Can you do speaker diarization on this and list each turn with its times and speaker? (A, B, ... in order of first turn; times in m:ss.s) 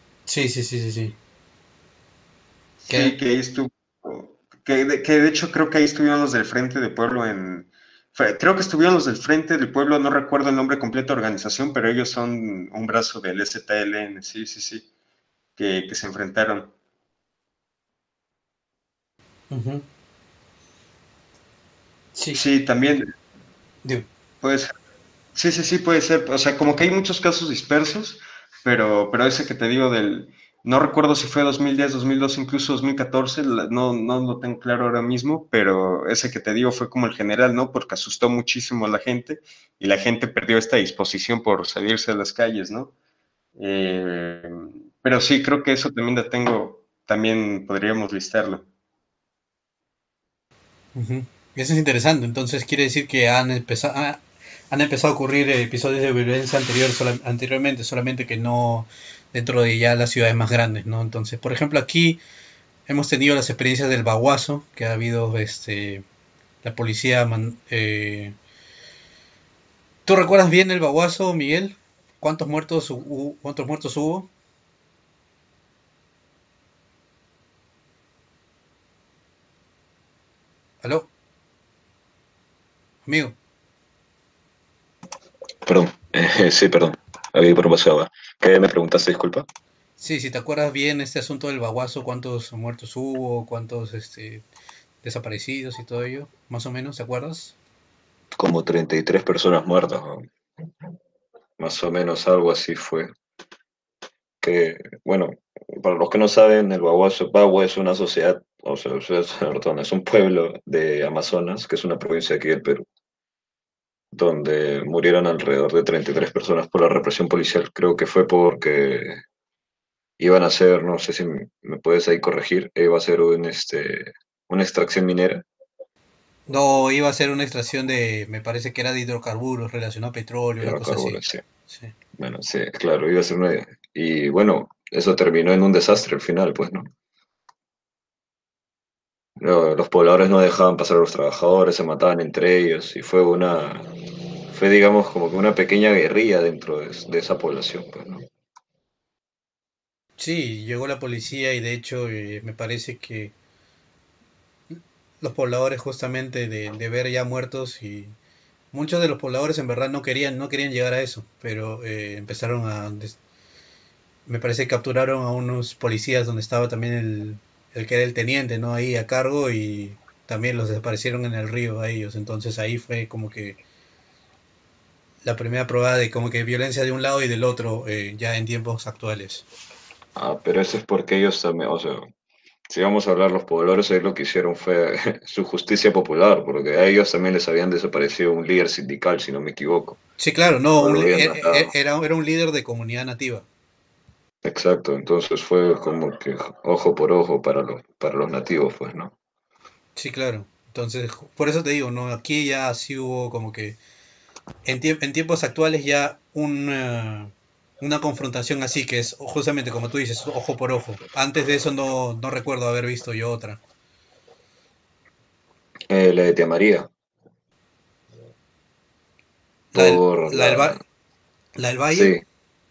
0:00.3-0:01.2 A
0:02.8-0:14.9 B
0:02.9-0:03.1 A
0:15.6-0:16.7 B
0:19.5-0:19.8 A
0:22.1-0:22.4 A
0:22.3-0:23.1 B
0:24.4-0:24.7 B
0:25.3-0:42.9 B
0:43.6-0:48.6 B
0:50.9-1:02.2 A
1:02.9-1:06.0 A
1:06.6-1:08.3 A
1:10.1-1:14.3 A
1:20.8-1:21.1 A
1:23.0-1:23.4 A
1:25.6-1:29.5 C
1:30.0-1:34.4 A
1:35.0-1:37.6 A
1:38.4-1:40.2 C
1:41.6-1:43.1 C
1:44.4-1:52.8 C
1:54.1-1:59.2 C
2:00.2-2:05.4 C
2:06.5-2:11.9 A
2:10.6-2:11.4 C
2:12.2-2:16.9 C
2:19.4-2:23.9 C
2:24.5-2:28.2 C
2:30.2-2:33.3 A
2:34.7-2:38.1 A
2:38.7-2:43.2 A
2:44.2-2:53.6 A
2:55.2-2:59.4 A
3:00.2-3:02.1 C
3:02.7-3:10.0 C
3:10.2-3:13.4 A
3:10.8-3:11.7 C
3:14.4-3:19.1 C
3:20.0-3:23.8 A
3:24.6-3:33.6 A
3:35.9-3:36.9 C
3:39.7-3:40.8 A
3:39.7-3:40.8 C
3:41.6-3:42.1 A
3:41.9-3:42.2 C